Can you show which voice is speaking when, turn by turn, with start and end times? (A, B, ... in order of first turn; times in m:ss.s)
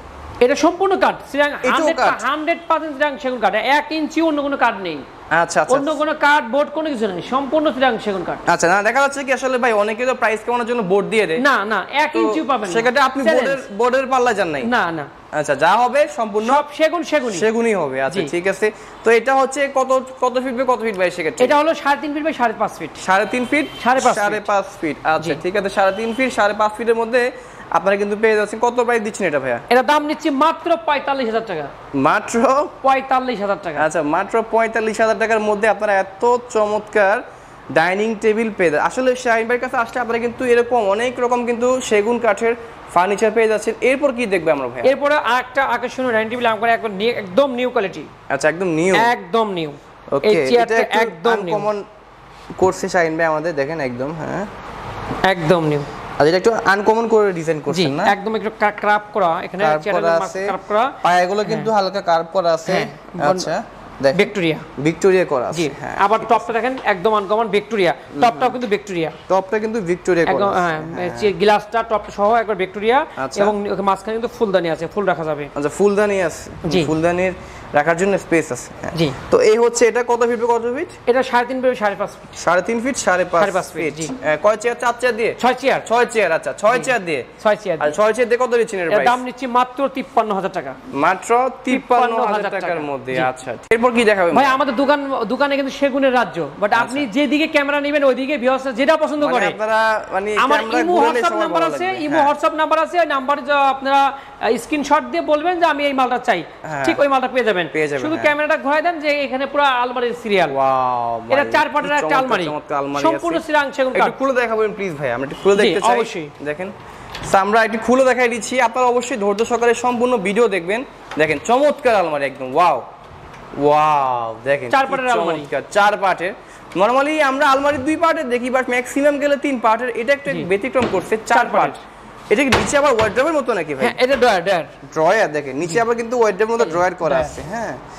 0:00.4-0:05.0 A
0:01.6-0:02.2 B
0:05.3-0:05.9 B
0:05.7-0:08.4 A
0:08.4-0:11.4 B
0:11.4-0:13.6 A
0:12.1-0:14.7 B
0:14.6-0:15.1 A
0:15.3-0:16.6 B
0:16.4-0:17.4 A
0:17.3-0:21.6 B
0:21.4-0:23.0 A
0:23.0-0:29.6 B
0:23.8-0:24.5 A
0:29.7-0:31.7 A
0:32.0-0:32.7 B
0:32.8-0:33.9 A
0:33.8-0:37.2 B
0:37.7-0:44.9 B
0:44.8-0:48.1 A
0:48.3-0:49.1 B
0:48.9-0:51.7 A
0:50.1-0:51.8 B
0:52.6-0:54.5 B
0:55.2-0:55.9 A
0:56.2-0:58.1 B
0:57.7-1:01.7 A
0:59.6-1:06.4 B
1:02.7-1:03.5 A
1:04.1-1:04.6 A
1:05.5-1:09.2 A
1:08.1-1:08.6 B
1:09.3-1:11.3 B
1:10.3-1:15.5 A
1:13.2-1:13.5 B
1:15.5-1:20.9 B
1:16.6-1:16.9 A
1:21.1-1:22.3 A
1:22.4-1:27.3 B
1:23.4-1:24.1 A
1:25.4-1:25.9 A
1:26.7-1:27.9 A
1:27.8-1:29.2 B
1:28.9-1:30.8 A
1:30.9-1:34.6 B
1:31.7-1:33.3 A
1:34.3-1:39.6 A
1:36.7-1:37.1 B
1:39.2-1:42.3 B
1:40.4-1:50.6 A
1:46.6-1:47.0 B
1:47.7-1:48.3 B
1:50.5-1:53.4 B
1:51.3-1:54.2 A
1:53.9-1:56.7 B
1:55.6-1:56.3 A
1:57.3-2:02.8 B
2:03.6-2:11.8 B
2:04.7-2:05.5 A
2:11.3-2:11.8 A
2:12.3-2:14.0 B
2:13.8-2:14.7 A
2:14.9-2:17.8 B
2:16.6-2:17.3 A